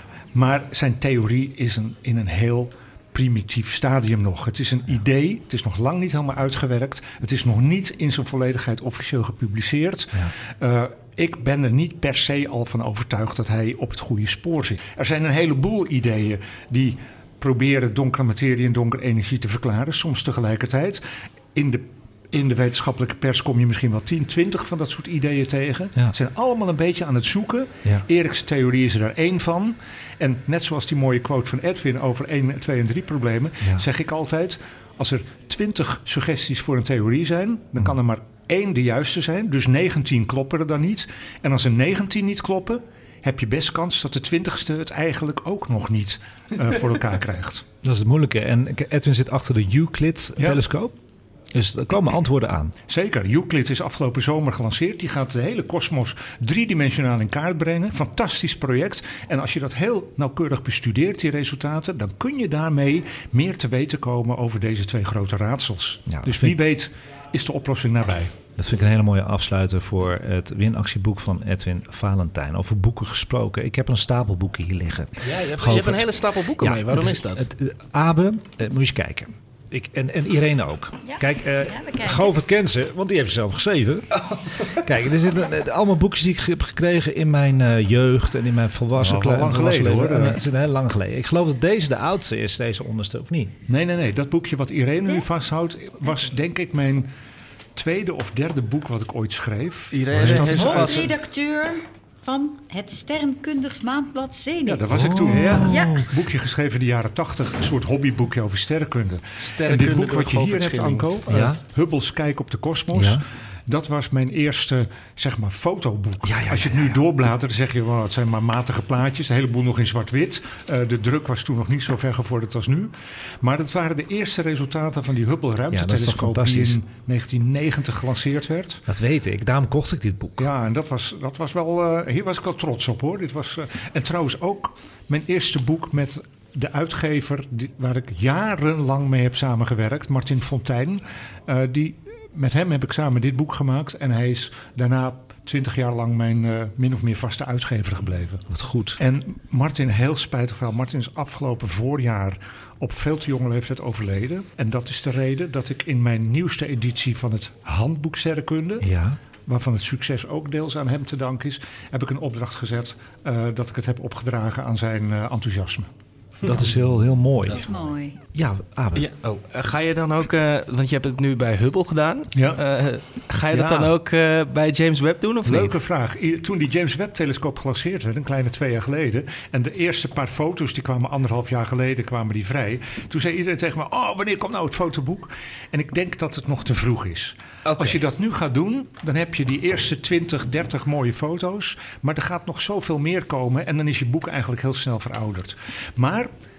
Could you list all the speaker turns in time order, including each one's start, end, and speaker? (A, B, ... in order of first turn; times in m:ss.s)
0:00.4-0:21.0 A
0:21.5-0:47.6 A
0:47.8-0:50.9 B
0:51.5-0:52.8 B
0:52.9-1:08.3 A
1:06.1-1:06.6 B
1:08.6-1:33.5 B
1:15.2-1:17.5 C
1:21.0-1:22.3 D
1:24.2-1:24.6 C
1:29.0-1:30.4 A
1:33.7-1:37.1 A
1:37.8-1:41.2 A
1:39.9-1:41.2 C
1:40.3-1:45.0 D
1:44.6-2:08.8 A
1:44.9-1:46.1 B
1:45.3-1:45.7 C
1:45.6-1:46.0 D
1:49.4-1:51.1 C
1:51.3-1:51.6 B
1:52.9-1:53.2 B
1:56.2-1:57.0 B
2:05.7-2:06.8 B
2:08.9-2:10.5 B
2:10.4-2:28.4 A
2:28.5-2:29.0 B
2:29.0-2:38.9 A
2:38.8-2:39.2 B
2:39.4-2:45.9 A
2:46.4-2:46.9 C
2:46.4-2:47.6 B
2:47.5-2:47.9 C
2:47.5-2:48.2 D
2:48.3-2:49.1 B
2:48.9-2:55.7 C
2:52.4-2:52.6 A
2:53.5-2:53.9 A
2:55.4-3:16.3 A
3:07.6-3:08.0 C